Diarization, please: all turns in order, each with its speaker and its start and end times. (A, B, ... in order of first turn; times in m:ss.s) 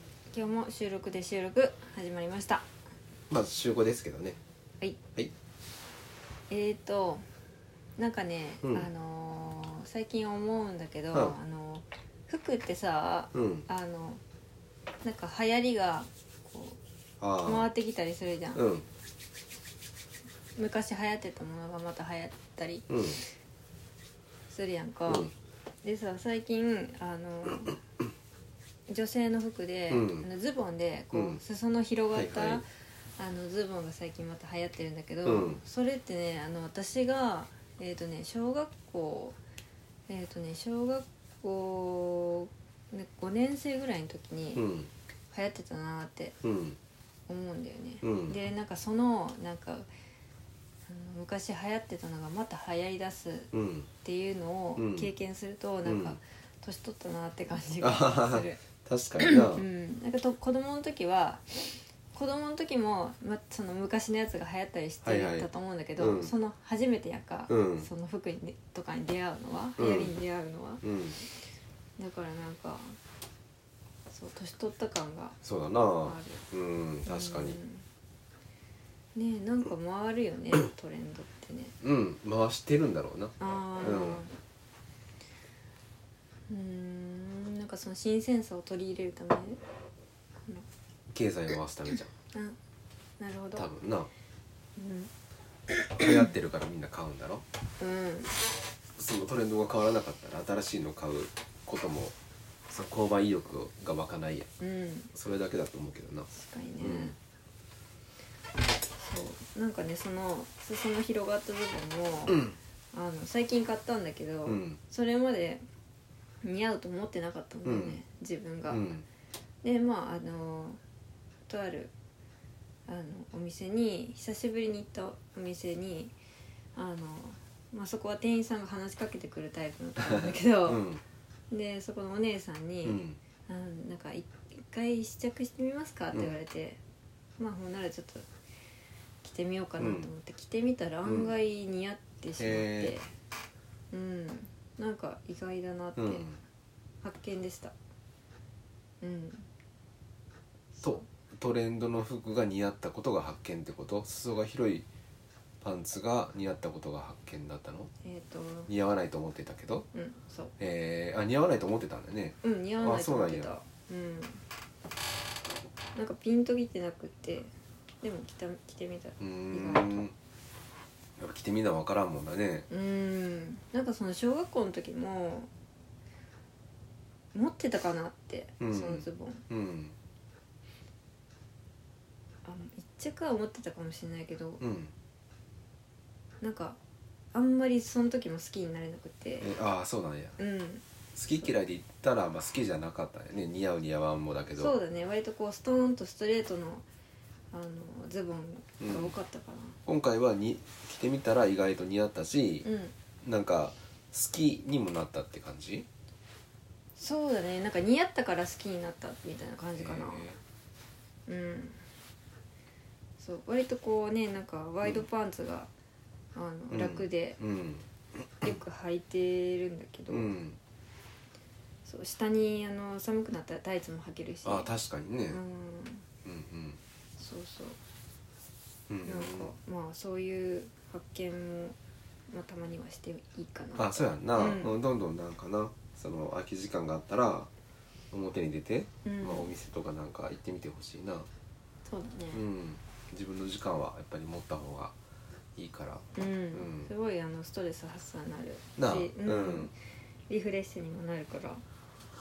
0:00.3-0:02.6 A
0:03.3-0:04.4 B
0:06.5-0:07.2 A
0:08.0-0:14.2 A
0:08.6-0:08.9 B
0:11.1-0:11.4 B
0:13.3-0:13.7 B
0:15.0-0:16.8 A
0:17.2-0:17.7 B
0:17.4-0:18.6 A
0:18.5-0:18.8 B
0:20.6-0:23.2 A
0:22.9-0:23.2 B
0:24.5-0:25.3 A
0:25.8-0:27.8 A
0:28.9-0:39.4 A
0:29.9-0:30.3 B
0:31.1-0:31.4 B
0:32.1-0:32.6 B
0:35.2-0:35.6 B
0:40.1-0:44.6 A
0:44.6-0:44.9 B
0:45.3-0:46.3 A
0:46.4-0:46.8 B
0:47.3-0:49.9 A
0:48.0-0:48.4 B
0:50.9-0:53.5 A
0:53.5-0:53.9 B
0:54.0-0:58.6 A
0:54.8-0:55.1 B
0:55.8-0:56.2 B
0:57.8-0:59.6 B
0:59.2-1:11.3 A
1:05.0-1:05.5 B
1:06.0-1:06.3 B
1:07.5-1:07.9 B
1:09.8-1:10.1 B
1:10.8-1:11.2 B
1:12.0-1:13.0 A
1:14.1-1:15.4 A
1:15.4-1:17.6 B
1:16.0-1:16.4 A
1:17.0-1:17.8 A
1:19.1-1:21.7 A
1:21.8-1:24.2 B
1:23.4-1:24.3 A
1:26.5-1:29.6 A
1:31.1-1:32.1 B
1:32.3-1:32.6 A
1:33.2-1:33.7 A
1:33.5-1:34.1 B
1:34.8-1:35.1 A
1:36.0-1:37.4 B
1:37.8-1:38.3 A
1:39.0-1:42.1 B
1:42.7-1:44.5 B
1:44.6-1:45.1 A
1:45.1-1:47.1 B
1:46.3-1:47.1 A
1:49.0-1:55.6 A
1:52.3-1:52.5 B
1:54.4-1:54.8 B
1:56.4-1:58.9 A
1:57.6-1:58.0 B
1:58.7-1:59.0 B
1:59.6-2:00.8 A
2:01.5-2:01.9 A
2:02.9-2:06.1 A
2:06.7-2:10.8 A
2:10.1-2:11.0 B
2:11.5-2:16.8 A
2:12.8-2:13.2 B
2:17.4-2:18.3 A
2:19.2-2:23.1 A
2:19.8-2:20.1 B
2:21.0-2:21.3 B
2:22.4-2:23.0 B
2:23.9-2:26.3 A
2:26.0-2:26.4 B
2:27.0-2:27.7 A
2:29.0-2:29.4 A
2:30.8-2:31.0 A
2:30.8-2:34.8 B
2:35.6-2:37.9 B
2:38.0-2:38.7 A
2:38.7-2:39.8 B
2:39.9-2:40.5 A
2:40.6-2:43.5 B
2:42.4-2:44.4 A
2:45.9-2:50.1 A
2:49.2-2:50.1 B
2:51.2-2:52.7 B
2:52.7-2:55.5 A
2:57.3-2:59.4 A
2:58.6-2:59.9 B
3:02.4-3:04.6 A
3:04.6-3:04.9 B
3:06.4-3:06.8 A
3:07.3-3:09.5 A
3:09.4-3:10.4 B
3:10.4-3:10.8 A
3:11.1-3:14.7 B
3:14.6-3:16.8 A
3:17.5-3:19.8 A
3:18.8-3:19.1 B
3:19.8-3:22.7 B
3:22.6-3:22.9 A
3:23.2-3:25.8 B
3:27.0-3:30.2 A
3:29.8-3:30.4 B
3:31.3-3:31.8 A
3:33.2-3:35.7 A
3:36.3-3:37.4 A
3:36.7-3:37.9 B
3:38.4-3:40.3 A
3:40.1-3:40.6 B
3:41.8-3:44.7 A
3:44.4-3:45.4 B
3:45.3-3:46.0 A
3:46.2-3:46.8 B
3:47.2-3:47.8 A
3:48.9-3:49.5 B
3:49.0-3:51.7 A
3:52.3-3:54.7 A
3:53.8-3:57.5 B
3:58.1-4:01.3 B
3:59.0-3:59.5 A
4:01.8-4:02.4 A
4:02.3-4:04.9 B
4:05.6-4:06.9 B
4:06.1-4:09.7 A
4:08.8-4:09.7 B
4:10.3-4:11.6 A